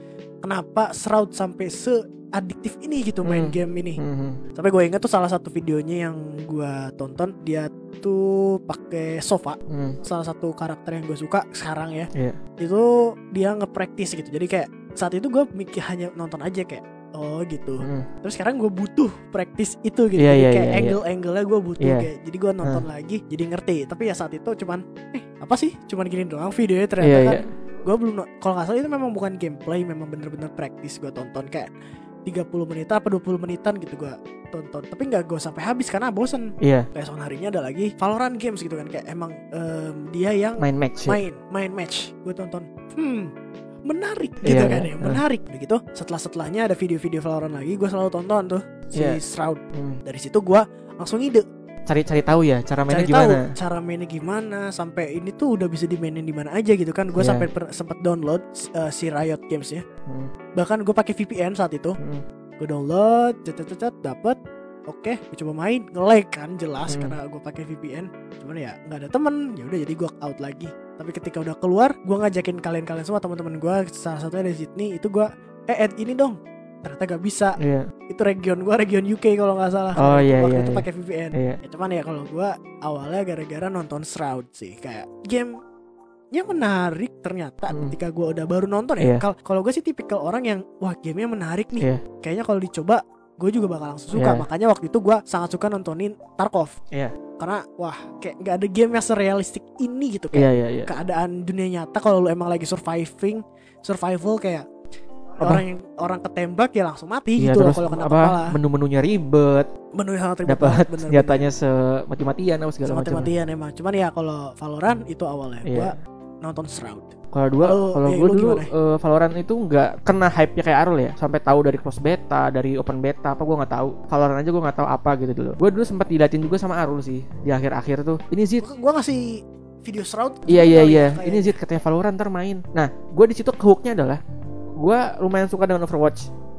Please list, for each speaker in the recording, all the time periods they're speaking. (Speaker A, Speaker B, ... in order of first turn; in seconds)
Speaker A: 0.4-4.0, 4.5-31.7, 32.2-43.3, 43.9-51.4, 52.9-59.8, 60.5-62.0, 62.6-77.6, 78.1-85.6, 86.3-96.7, 97.4-104.6, 105.4-108.6, 110.0-111.4, 112.8-117.1, 117.6-118.7, 128.6-131.5
Speaker B: 3.2-4.4, 9.7-10.0, 17.8-18.1, 20.2-21.0, 21.8-22.1, 27.0-27.4, 36.6-36.9, 40.6-41.2, 44.4-45.2, 48.9-49.2, 49.7-50.0, 51.9-53.5, 57.1-57.5, 66.9-67.2, 77.6-77.9, 80.0-81.6, 89.0-89.2, 94.1-94.4, 100.3-100.9, 107.4-109.7, 110.5-113.3, 115.6-115.9, 117.3-128.6, 130.5-134.2, 134.8-136.3